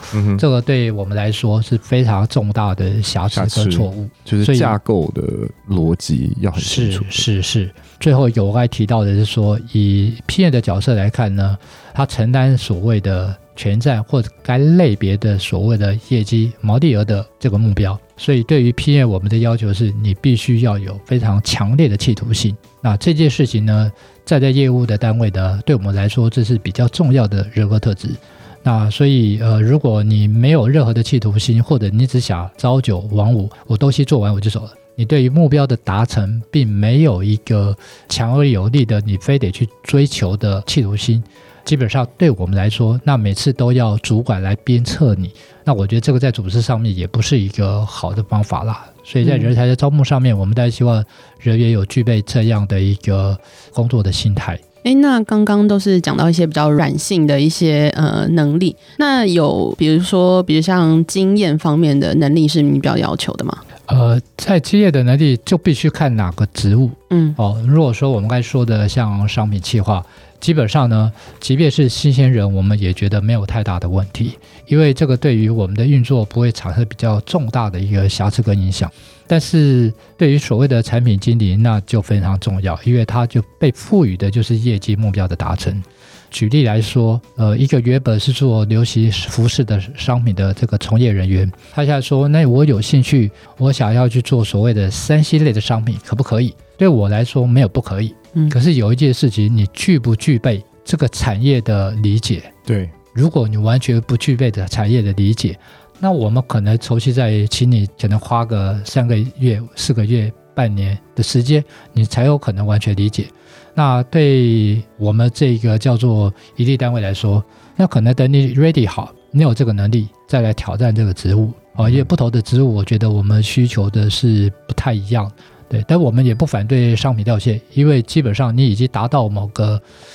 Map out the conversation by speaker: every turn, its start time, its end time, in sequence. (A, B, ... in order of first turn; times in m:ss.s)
0:00.1-0:00.4 A
0:00.3-0:04.8 B
0:03.3-0:07.2 A
0:06.6-0:54.6 B
0:49.2-0:49.5 C
0:54.8-1:03.6 C
1:03.9-1:42.5 B
1:07.1-1:07.4 C
1:42.7-1:42.9 A
1:43.1-2:09.8 B
2:01.8-2:02.1 A